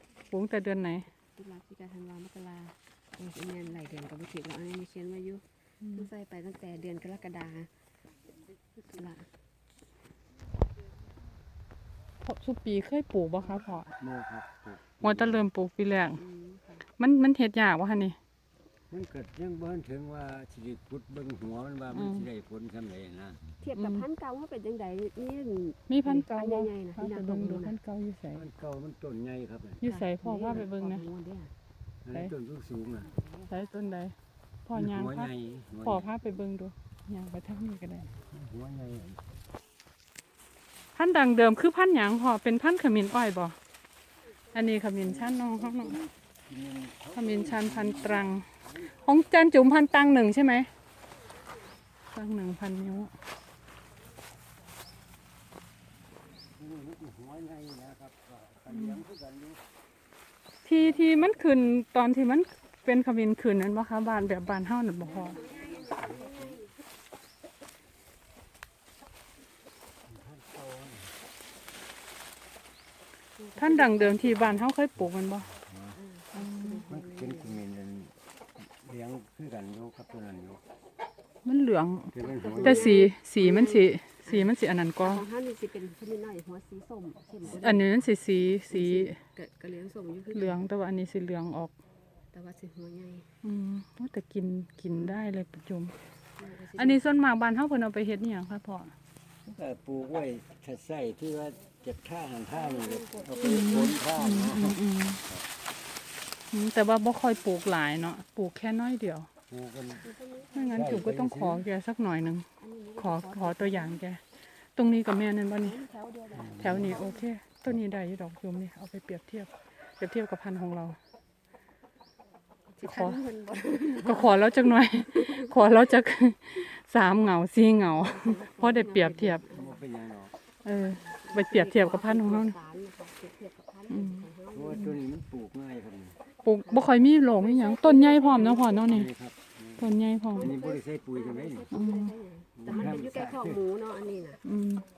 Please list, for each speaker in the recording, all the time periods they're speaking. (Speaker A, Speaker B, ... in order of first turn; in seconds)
Speaker A: 0.3-1.1, 5.8-6.1, 12.2-13.9, 15.0-16.2, 16.9-18.2, 21.9-22.3, 23.8-24.0, 25.9-28.4, 29.8-31.1, 33.5-34.1, 34.7-35.3, 35.8-38.1, 40.9-43.6, 44.5-46.0, 47.1-50.7, 52.1-53.1, 58.7-59.0, 60.6-65.4, 73.6-75.5, 76.3-76.8, 81.4-85.2, 87.4-89.2, 90.3-91.7, 93.4-95.9, 96.8-98.9, 103.4-105.2, 106.5-109.3, 110.5-112.5, 113.0-114.2, 114.8-115.8, 116.5-121.0, 122.8-123.2, 123.9-129.4, 130.7-132.6, 133.9-134.2, 136.4-139.1, 139.8-140.5, 141.7-142.1, 144.4-144.9
Speaker B: 1.4-7.7, 8.8-9.3, 16.1-16.8, 23.6-27.8, 29.8-31.5, 33.0-33.5, 65.3-66.7, 73.4-74.5, 76.0-77.6, 82.2-87.9, 88.7-90.7, 92.3-93.3, 96.4-97.0, 102.5-104.0, 110.0-111.0, 112.6-114.0, 115.6-117.3, 122.7-125.5, 128.0-129.8, 130.8-134.9, 136.7-139.0, 140.3-144.4
Speaker C: 14.0-15.5, 18.9-23.6, 28.3-29.8, 32.0-33.1, 34.7-36.1, 38.3-39.2, 45.0-48.9, 56.4-59.6, 60.9-61.3, 65.0-66.6, 70.1-71.1, 75.6-76.0, 76.9-80.6, 82.1-83.0, 99.5-105.5, 109.5-110.1, 110.7-111.6, 116.3-117.0, 129.5-130.3, 134.5-136.2, 138.8-141.7, 142.6-143.6